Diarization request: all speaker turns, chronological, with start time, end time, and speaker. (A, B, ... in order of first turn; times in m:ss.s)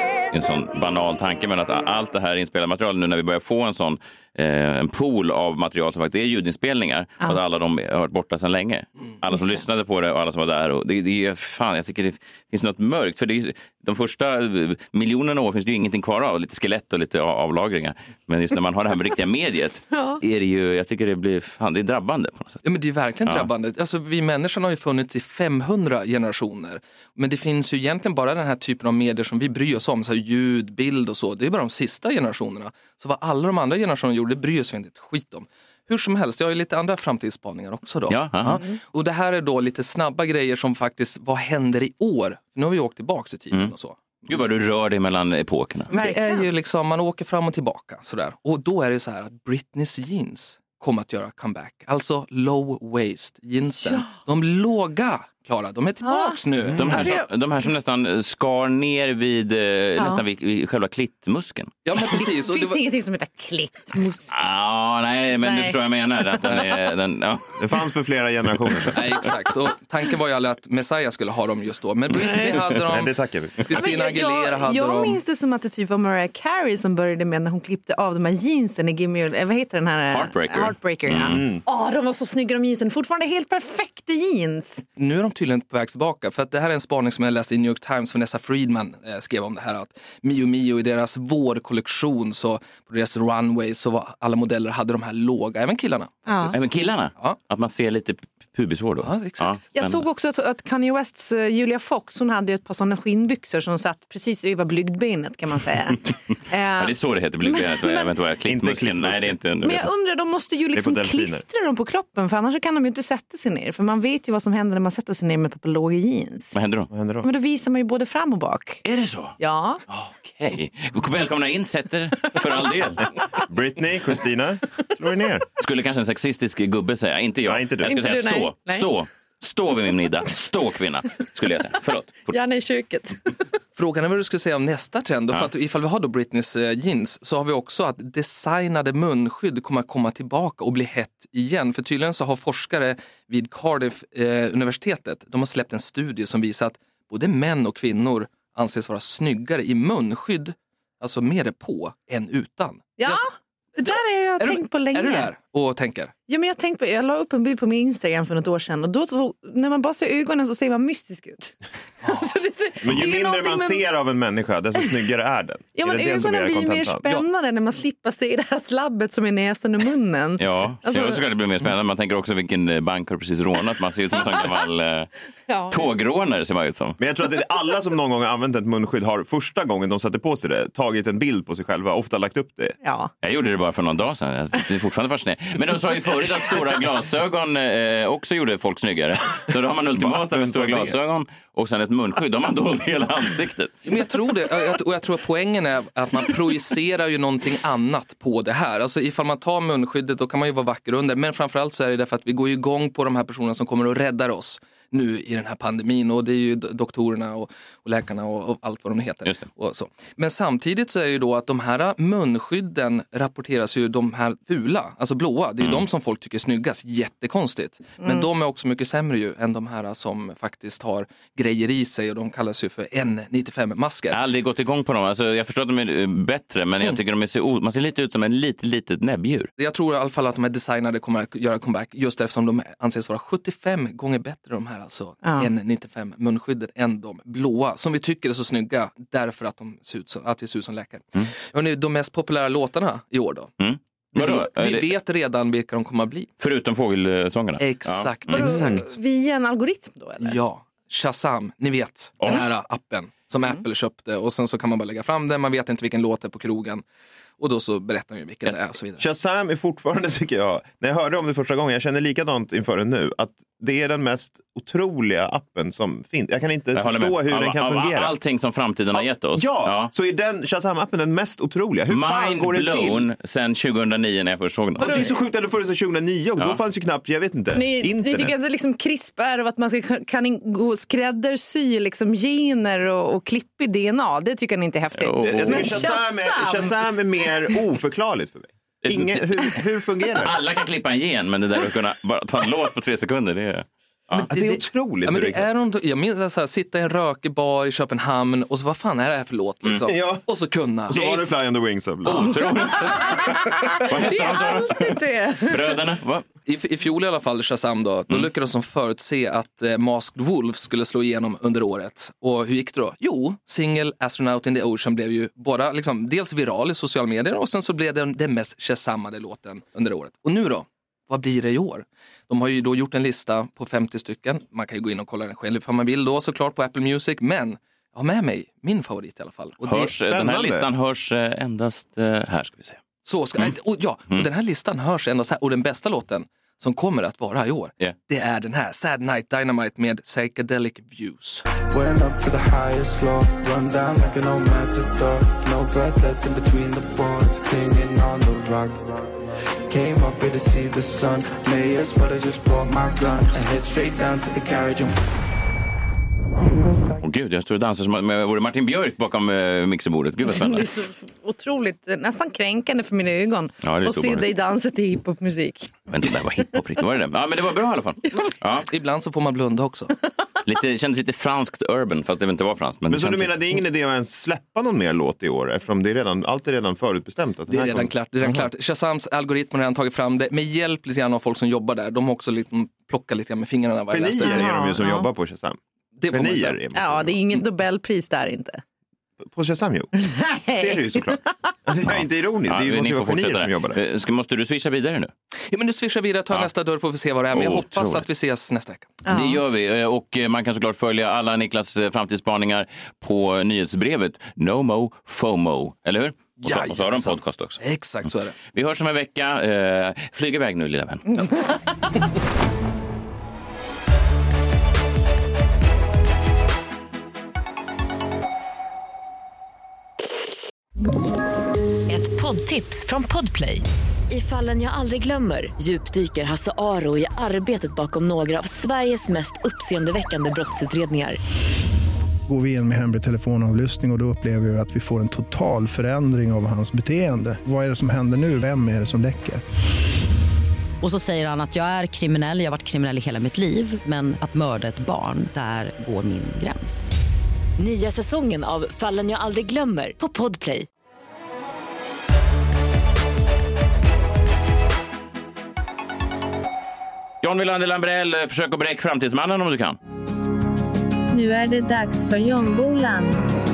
0:00.3-0:22.6 A
0:09.3-0:09.6 B
0:19.9-0:20.2 B
0:22.6-0:44.0 C
0:23.2-0:23.5 A
0:38.1-0:38.6 A
0:38.5-0:38.8 B
0:44.3-0:45.9 A
0:45.9-0:46.5 B
0:45.9-0:57.2 C
0:53.7-0:54.2 B
0:56.0-0:57.2 B
0:56.7-1:01.8 A
1:00.0-1:00.2 B
1:01.8-1:02.8 C
1:02.0-1:04.3 B
1:04.3-1:07.6 A
1:05.4-1:05.8 B
1:06.3-1:06.7 B
1:07.6-1:09.0 D
1:08.9-1:15.2 C
1:12.2-1:12.5 B
1:12.6-1:13.7 D
1:13.7-1:24.8 B
1:20.1-1:21.4 A
1:21.2-1:21.6 D
1:25.0-1:36.6 C
1:36.2-1:36.5 B
1:36.5-1:40.0 A
1:39.0-1:39.6 C
1:39.7-1:48.2 B
1:46.8-1:49.9 A
1:48.4-1:49.4 D
1:49.6-1:56.5 B
1:50.7-1:51.4 D
1:56.5-1:56.9 A
1:56.9-1:57.3 D
1:57.2-1:58.8 B
1:58.8-1:59.4 A
1:59.4-1:59.8 B
1:59.9-2:03.1 A
2:03.5-2:05.4 D
2:05.6-2:12.3 A
2:07.4-2:08.0 D
2:07.8-2:08.9 B
2:12.3-2:13.4 B
2:13.8-2:33.3 C
2:33.0-2:35.3 B
2:33.8-2:36.1 C
2:36.3-2:43.8 B
2:42.0-2:42.3 C
2:42.8-2:47.0 D
2:45.8-2:51.2 B
2:50.4-2:55.1 A
2:55.5-2:55.9 B
2:55.7-2:57.0 A
2:57.0-3:02.7 D
3:02.8-3:03.1 B
3:03.2-3:13.7 A
3:09.9-3:11.0 D
3:13.8-3:44.2 C
3:44.1-3:49.5 A
3:49.6-4:03.5 C
3:55.2-3:55.5 B
4:03.6-4:04.9 A
4:04.1-4:06.3 C
4:06.4-4:08.5 A
4:07.6-4:08.8 C
4:08.3-4:10.4 B
4:10.2-4:16.8 C
4:17.4-4:19.0 C
4:19.0-4:28.1 D
4:26.7-4:29.9 A
4:28.9-4:33.0 D
4:31.9-4:35.0 A
4:34.8-4:38.3 D
4:34.8-4:35.1 B
4:37.5-4:46.7 B
4:44.9-4:45.9 A
4:45.2-4:50.3 D
4:48.8-4:49.6 A
4:50.1-4:54.3 A
4:54.2-4:55.5 D
4:54.3-5:01.2 C
4:59.8-5:00.2 D
5:00.9-5:02.4 D
5:02.0-5:06.2 A
5:02.9-5:05.8 B
5:06.5-5:29.9 C
5:29.6-5:32.8 A
5:30.1-5:30.6 D
5:33.0-5:41.4 C
5:41.7-5:48.8 E
5:49.7-5:55.0 E
5:57.0-6:00.7 A
6:00.3-6:05.7 B
6:03.6-6:04.2 A
6:05.9-6:08.7 A
6:08.7-6:09.9 C
6:10.4-6:13.3 A
6:12.9-6:18.4 D
6:17.5-6:24.5 C
6:23.9-6:25.6 D
6:24.2-6:25.1 B
6:26.0-6:26.6 C
6:26.1-6:27.2 D
6:26.7-6:28.6 B
6:29.2-6:29.9 D
6:29.9-6:31.5 B
6:30.6-6:33.8 D
6:31.9-6:35.1 A
6:35.5-6:39.0 C
6:37.3-6:38.1 A
6:39.0-6:39.4 B
6:39.1-6:47.6 A
6:46.4-6:48.3 C
6:48.5-6:51.0 A
7:01.9-7:11.2 F
7:12.3-7:19.4 G
7:20.8-7:26.9 H
7:27.6-7:30.6 F
7:37.2-7:39.8 A
7:41.1-7:43.3 I